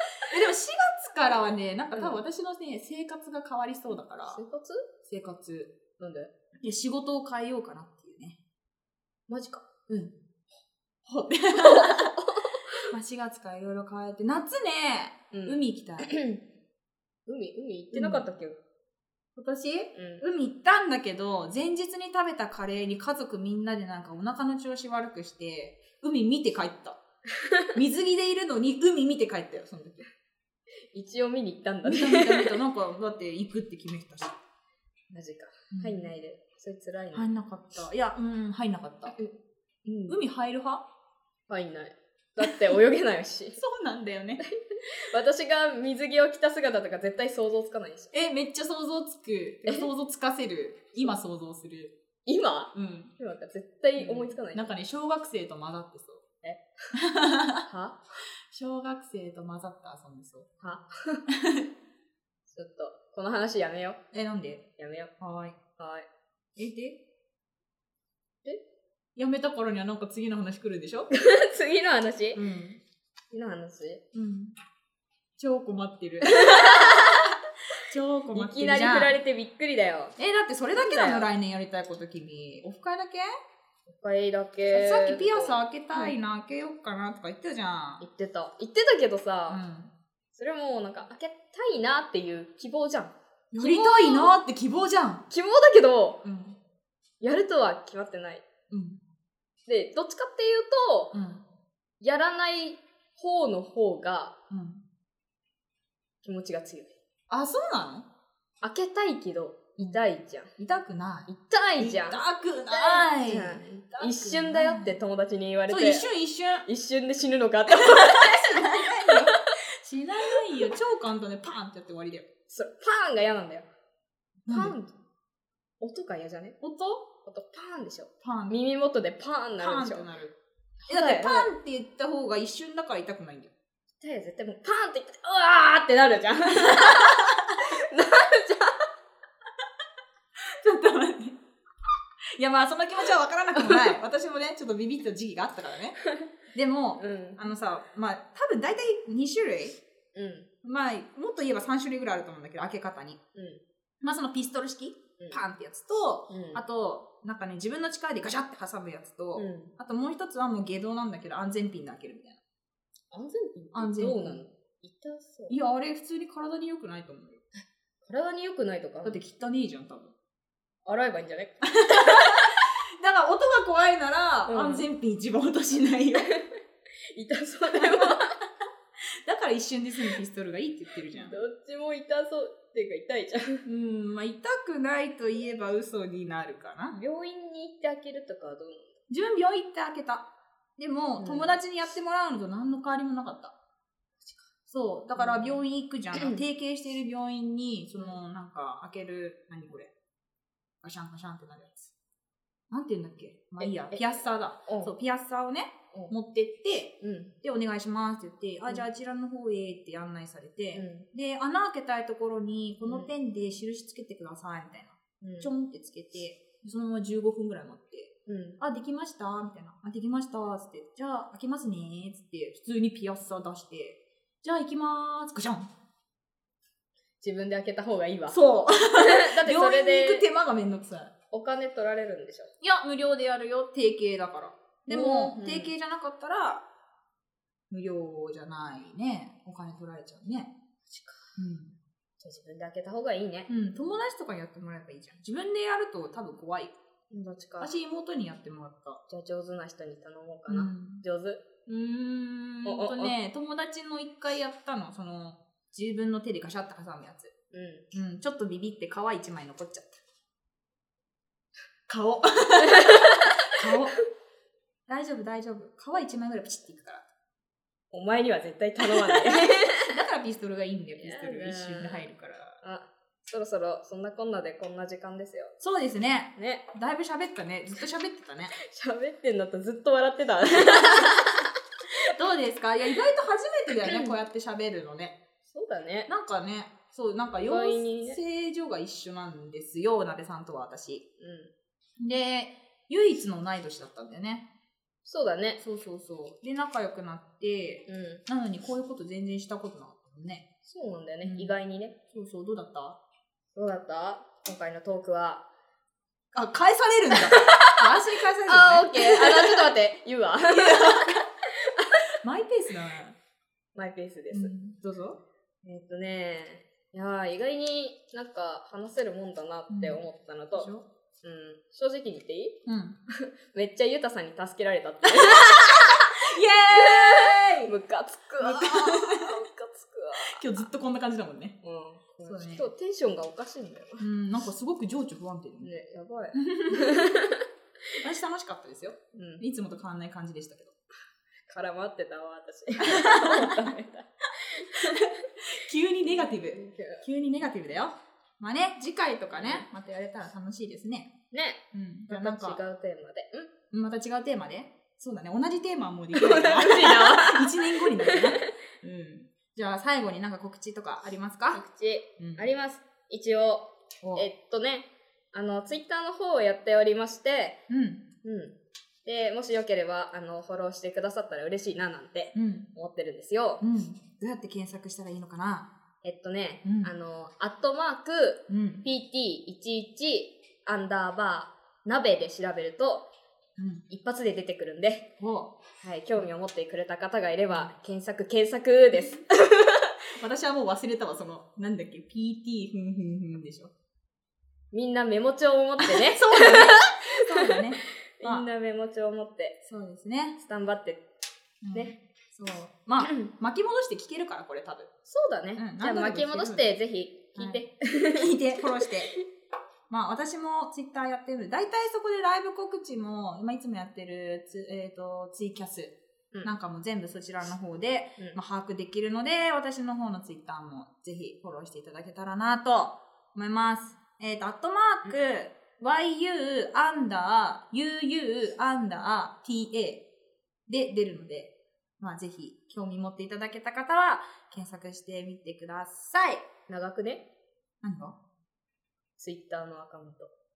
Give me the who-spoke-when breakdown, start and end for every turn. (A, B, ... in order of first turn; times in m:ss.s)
0:00.2-0:04.4 A
0:04.3-0:04.8 B
0:05.0-0:05.7 A
0:06.0-0:06.3 B
0:06.6-0:08.4 A
0:09.3-0:09.9 B
0:11.0-0:12.1 A
0:11.6-0:12.9 B
0:12.9-0:16.1 A
0:15.3-0:16.4 B
0:17.2-0:18.6 B
0:17.9-0:18.3 A
0:19.4-0:27.0 A
0:19.9-0:20.2 B
0:27.4-0:27.7 B
0:27.7-0:30.0 A
0:30.9-0:32.5 B
0:31.8-0:34.3 A
0:35.1-0:37.3 B
0:35.7-0:36.1 A
0:37.1-0:39.2 A
0:39.8-0:40.2 B
0:40.1-0:40.8 A
0:41.5-0:43.6 B
0:43.6-0:44.4 A
0:44.4-0:48.1 B
0:48.1-0:51.9 A
0:52.2-0:54.7 B
0:52.7-0:53.1 A
0:54.0-0:56.2 A
0:56.9-0:57.6 A
0:57.6-0:58.0 B
0:58.5-1:00.5 A
1:00.6-1:01.2 B
1:01.3-1:01.7 A
1:02.5-1:04.0 B
1:04.1-1:04.6 A
1:04.8-1:05.1 B
1:05.2-1:05.6 A
1:05.8-1:06.1 B
1:06.6-1:07.0 A
1:09.2-1:11.1 A
1:11.1-1:12.4 B
1:12.3-1:12.8 A
1:13.3-1:14.0 B
1:14.1-1:14.5 A
1:15.4-1:17.2 A
1:16.2-1:17.3 B
1:17.8-1:19.2 A
1:18.3-1:20.2 B
1:20.2-1:23.2 A
1:20.7-1:21.2 B
1:23.9-1:26.1 B
1:24.7-1:28.0 A
1:28.0-1:29.6 B
1:29.5-1:29.9 A
1:30.3-1:34.4 B
1:33.5-1:35.2 A
1:35.3-1:36.2 B
1:36.2-1:36.6 A
1:37.2-1:38.4 B
1:38.7-1:39.0 A
1:39.7-1:41.1 B
1:41.1-1:41.4 A
1:42.0-1:44.3 B
1:44.5-1:44.8 A
1:46.2-1:47.0 B
1:47.3-1:48.1 A
1:48.6-1:50.5 B
1:50.6-1:55.0 A
1:51.3-1:56.0 B
1:55.7-1:56.7 A
1:56.6-1:59.2 B
1:57.7-2:02.3 A
2:02.5-2:03.6 B
2:04.4-2:04.7 A
2:04.5-2:04.9 B
2:05.8-2:06.6 B
2:06.6-2:07.0 A
2:07.2-2:10.0 B
2:08.2-2:08.6 A
2:09.6-2:10.4 A
2:10.9-2:11.5 B
2:10.9-2:13.5 A
2:14.0-2:18.8 B
2:16.5-2:17.4 A
2:20.5-2:21.4 A
2:22.4-2:26.0 A
2:23.5-2:23.9 B
2:26.0-2:26.3 B
2:26.5-2:29.8 A
2:27.0-2:27.4 B
2:30.1-2:30.5 B
2:30.6-2:33.2 A
2:33.3-2:33.6 B
2:34.0-2:42.4 A
2:36.3-2:36.6 B
2:39.3-2:39.7 B
2:43.1-2:45.5 B
2:43.7-2:44.4 A
2:45.5-2:47.4 A
2:48.0-2:49.2 B
2:49.0-2:50.1 A
2:50.8-2:52.4 B
2:51.6-2:56.3 A
2:54.5-2:54.8 B
2:56.2-2:56.5 B
2:57.1-2:58.3 B
2:57.7-2:58.3 A
2:59.2-3:01.4 A
3:01.2-3:03.6 B
3:03.6-3:07.0 A
3:06.9-3:09.0 B
3:09.1-3:13.5 A
3:11.2-3:11.5 B
3:14.2-3:14.4 B
3:14.7-3:19.9 A
3:15.2-3:15.6 B
3:16.1-3:16.4 B
3:20.8-3:21.9 A
3:22.7-3:45.7 A
3:23.6-3:24.9 B
3:27.0-3:27.3 B
3:30.7-3:31.0 B
3:32.8-3:33.1 B
3:35.2-3:35.5 B
3:38.3-3:38.6 B
3:47.2-3:48.4 B
3:48.3-3:51.1 A
3:49.0-3:50.2 B
3:51.3-3:52.5 B
3:52.6-3:56.6 A
3:54.9-3:55.7 B
3:57.7-4:00.5 A
4:00.9-4:01.3 B
4:01.4-4:01.8 A
4:02.2-4:03.5 B
4:03.5-4:06.8 A
4:07.1-4:07.7 B
4:07.6-4:09.0 A
4:09.1-4:11.4 B
4:10.5-4:11.0 A
4:11.6-4:17.3 A
4:12.6-4:13.1 B
4:17.5-4:17.8 B
4:17.9-4:20.0 A
4:21.9-4:24.0 A
4:22.7-4:23.2 B
4:24.9-4:27.0 A
4:27.9-4:29.9 B
4:29.1-4:32.6 A
4:31.0-4:32.0 B
4:32.6-4:35.5 B
4:35.6-4:38.6 A
4:36.4-4:36.6 B
4:38.6-4:41.5 B
4:40.5-4:41.4 A
4:42.0-4:45.2 A
4:43.8-4:44.2 B
4:45.4-4:46.1 B
4:46.1-4:51.0 A
4:47.4-4:48.2 B
4:51.2-4:51.5 B
4:52.0-4:54.4 A
4:55.0-4:55.6 B
4:55.6-5:00.4 A
4:57.9-4:58.2 B
5:00.6-5:01.9 B
5:01.2-5:01.5 A
5:02.1-5:03.0 A
5:03.5-5:05.4 B
5:06.3-5:09.7 A
5:07.1-5:07.9 B
5:08.4-5:12.0 B
5:10.5-5:11.2 A
5:12.2-5:13.2 A
5:13.7-5:14.5 B
5:14.3-5:15.2 A
5:15.6-5:20.7 B
5:19.7-5:20.0 A
5:20.5-5:20.8 A
5:21.2-5:22.6 B
5:22.6-5:23.0 A
5:23.1-5:26.1 B
5:25.0-5:27.7 A
5:26.7-5:30.7 B
5:28.4-5:29.4 A
5:30.3-5:31.6 A
5:31.6-5:34.0 B
5:32.2-5:32.7 A
5:34.0-5:35.7 A
5:35.6-5:37.4 B
5:36.3-5:36.9 A
5:38.0-5:40.7 A
5:39.1-5:39.4 B
5:41.5-5:45.1 B
5:42.8-5:43.6 A
5:44.9-5:51.1 A
5:46.0-5:47.0 B
5:49.3-5:49.7 B
5:51.3-5:53.5 B
5:51.7-5:52.6 A
5:53.7-6:01.6 A
5:56.1-5:58.3 B
6:01.5-6:07.6 B
6:02.2-6:02.5 A
6:07.7-6:08.0 A
6:08.2-6:13.6 B
6:12.3-6:12.7 A
6:13.6-6:15.7 A
6:16.0-6:23.1 B
6:16.6-6:16.9 A
6:18.5-6:18.8 A
6:23.6-6:23.8 A
6:23.9-6:25.0 B
6:25.2-6:25.5 A
6:25.8-6:29.9 B
6:30.2-6:33.7 A
6:34.7-6:37.6 B
6:35.8-6:38.5 A
6:38.2-6:39.6 B
6:39.6-6:40.4 A
6:40.4-6:41.0 B
6:41.6-6:44.9 A
6:43.0-6:43.3 B
6:45.1-6:48.3 B
6:45.6-6:46.6 A
6:47.3-6:47.6 A
6:48.1-6:49.1 A
6:48.8-6:49.1 B
6:49.9-7:10.0 A
7:10.7-7:16.4 A
7:16.7-7:17.2 B
7:17.8-7:18.2 A
7:19.2-7:20.3 B